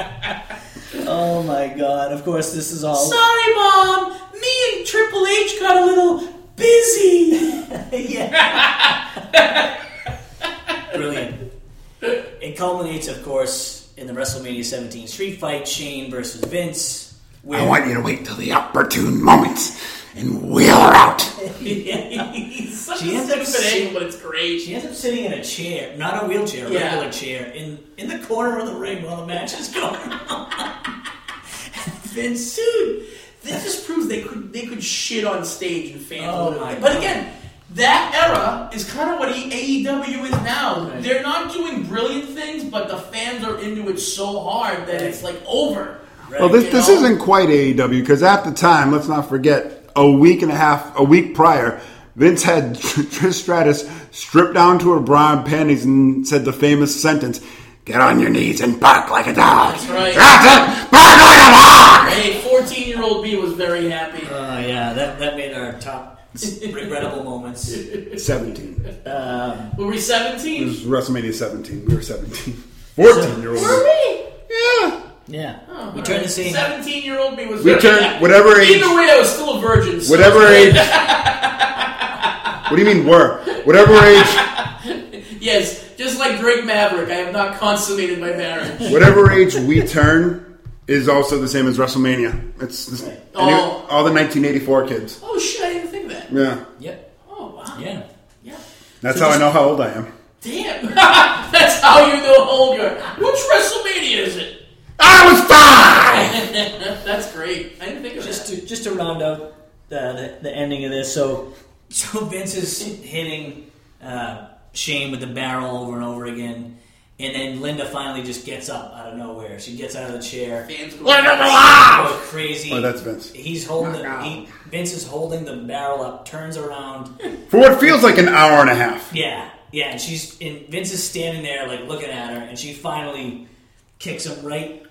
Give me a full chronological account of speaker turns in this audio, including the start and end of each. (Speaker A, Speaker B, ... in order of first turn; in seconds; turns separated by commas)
Speaker A: 0.9-3.2, Speaker B: 2.9-7.6, Speaker A: 7.3-8.7, Speaker B: 8.4-9.7, Speaker A: 10.9-11.4, Speaker A: 12.4-17.8, Speaker C: 17.5-21.3, Speaker A: 21.4-22.2, Speaker B: 21.6-24.7, Speaker A: 22.9-23.9, Speaker A: 24.6-30.7, Speaker B: 26.6-27.1, Speaker A: 31.7-32.1, Speaker B: 32.1-47.1, Speaker A: 36.2-37.2, Speaker A: 40.8-41.1, Speaker A: 44.9-45.2, Speaker A: 46.3-46.6, Speaker C: 46.4-62.2, Speaker B: 59.6-60.4, Speaker A: 59.8-60.3, Speaker B: 61.9-64.3, Speaker A: 64.2-67.8, Speaker B: 66.4-66.9, Speaker B: 67.7-68.2, Speaker C: 68.2-68.8, Speaker A: 69.0-69.7, Speaker B: 69.7-70.8, Speaker C: 70.6-73.8, Speaker A: 73.0-73.8, Speaker B: 73.5-74.2, Speaker C: 74.5-75.0, Speaker A: 75.3-76.7, Speaker B: 75.7-82.5, Speaker C: 77.6-79.0, Speaker C: 80.0-81.0, Speaker C: 82.7-84.4, Speaker B: 83.5-89.2, Speaker C: 88.8-95.2, Speaker A: 93.0-93.2, Speaker B: 93.3-93.8, Speaker B: 95.2-96.3, Speaker C: 96.3-96.6, Speaker B: 97.3-97.8, Speaker A: 97.7-98.0, Speaker C: 99.0-100.1, Speaker A: 99.1-99.5, Speaker B: 100.4-104.5, Speaker C: 105.0-106.4, Speaker B: 106.3-108.5, Speaker A: 108.2-120.7, Speaker B: 120.7-122.1, Speaker C: 121.1-122.0, Speaker A: 121.5-127.1, Speaker C: 122.7-124.4, Speaker C: 127.5-129.1, Speaker A: 129.1-133.4, Speaker A: 134.0-134.8